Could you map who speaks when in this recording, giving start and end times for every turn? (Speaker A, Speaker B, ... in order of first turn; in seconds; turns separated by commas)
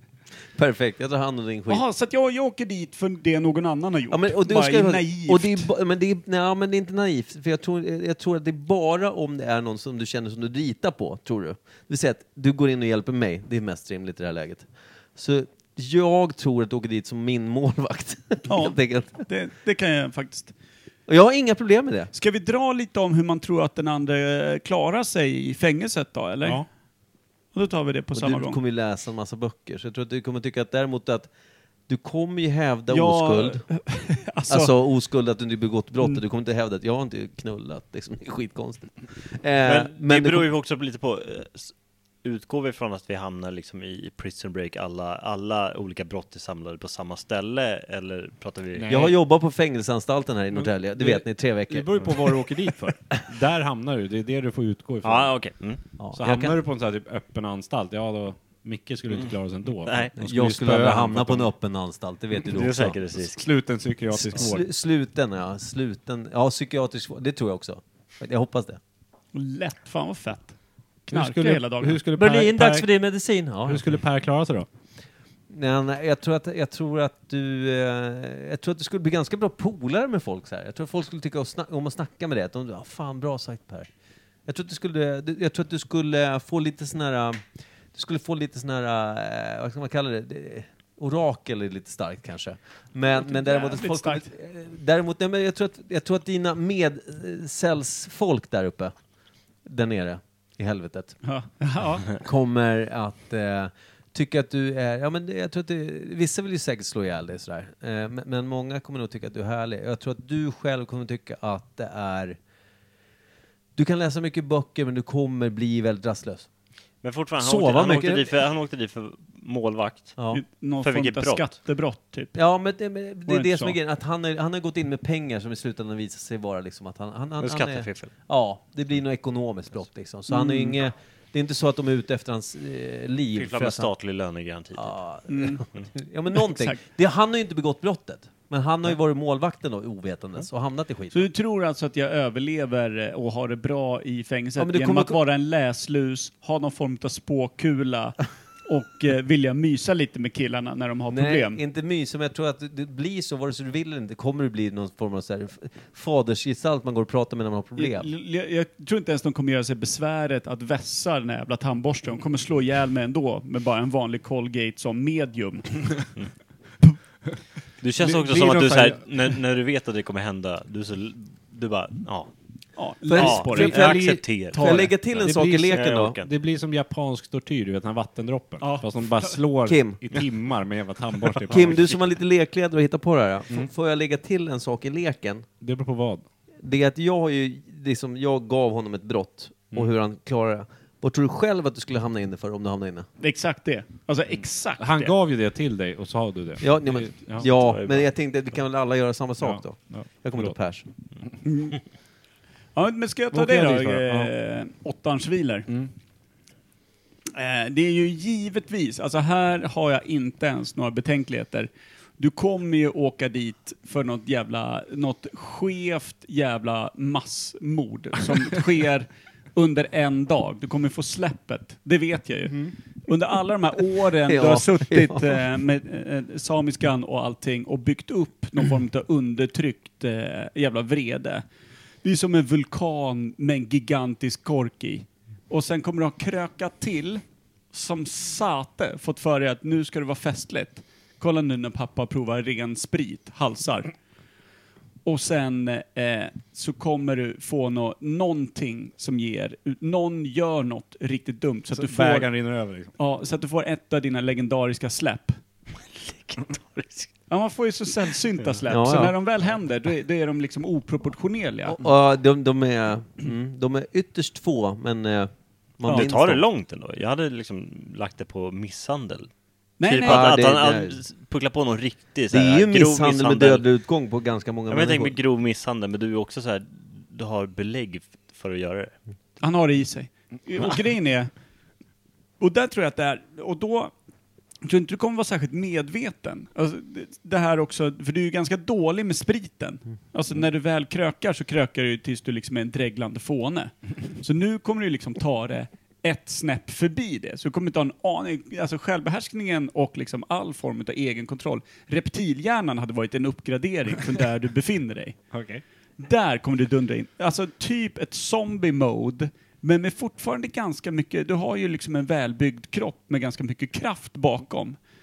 Speaker A: 0.5-1.8, Speaker B: 1.7-5.7, Speaker A: 4.1-19.2, Speaker B: 18.5-20.5, Speaker A: 21.1-22.1, Speaker B: 22.1-26.6, Speaker B: 27.5-28.6, Speaker A: 28.1-31.3, Speaker A: 31.9-33.7, Speaker B: 32.9-34.7, Speaker A: 34.5-40.5, Speaker C: 39.6-48.9, Speaker D: 48.7-49.2, Speaker A: 48.9-52.4, Speaker D: 50.5-55.5, Speaker C: 55.0-55.8, Speaker A: 56.0-56.6, Speaker D: 56.1-61.5, Speaker C: 59.8-60.1, Speaker A: 60.2-63.0, Speaker C: 62.5-63.5, Speaker D: 63.3-64.6, Speaker A: 64.1-68.8, Speaker B: 69.3-70.5, Speaker D: 71.1-72.9, Speaker B: 71.1-72.0, Speaker A: 72.1-73.9, Speaker D: 73.7-74.7, Speaker A: 75.5-83.9, Speaker A: 84.5-98.9, Speaker B: 93.2-94.3, Speaker A: 99.6-101.2, Speaker B: 101.2-102.1, Speaker A: 102.1-112.4, Speaker A: 113.8-116.5, Speaker C: 117.0-120.2, Speaker A: 117.4-118.3, Speaker A: 120.2-120.4, Speaker B: 120.3-122.3, Speaker C: 120.8-121.5, Speaker A: 122.3-133.9, Speaker B: 123.2-123.8, Speaker C: 127.4-128.1, Speaker B: 130.3-130.8, Speaker C: 133.3-135.0, Speaker A: 134.7-141.3, Speaker B: 135.3-135.6, Speaker B: 136.3-136.8, Speaker B: 141.1-151.6, Speaker A: 144.6-145.2, Speaker A: 151.1-158.1, Speaker B: 157.8-165.9, Speaker C: 167.8-172.3, Speaker D: 168.0-169.0, Speaker B: 172.8-173.8, Speaker A: 173.1-176.2, Speaker C: 173.1-176.3, Speaker D: 173.5-182.0, Speaker B: 174.5-174.9, Speaker B: 178.6-179.4, Speaker A: 179.7-180.0, Speaker A: 181.5-185.5, Speaker D: 185.6-186.2, Speaker A: 186.6-193.1, Speaker B: 193.2-195.1, Speaker D: 194.8-197.8, Speaker A: 196.6-200.8, Speaker C: 197.4-198.0, Speaker D: 199.4-200.5, Speaker B: 201.4-201.8, Speaker B: 202.7-205.7, Speaker D: 203.3-204.3, Speaker B: 207.3-231.4, Speaker A: 224.2-225.4, Speaker B: 232.0-237.2, Speaker B: 237.7-243.9, Speaker B: 245.0-252.3, Speaker D: 251.7-252.9, Speaker B: 253.0-255.4, Speaker C: 255.9-257.1, Speaker B: 257.3-261.8, Speaker A: 258.7-259.1, Speaker A: 261.7-266.4, Speaker C: 265.9-269.3, Speaker B: 269.8-270.3, Speaker C: 269.8-273.7, Speaker A: 270.0-271.0, Speaker A: 272.3-275.1, Speaker C: 274.7-278.9, Speaker B: 279.4-281.3, Speaker B: 282.4-283.9, Speaker B: 284.6-305.2, Speaker D: 305.3-305.6, Speaker B: 306.0-314.8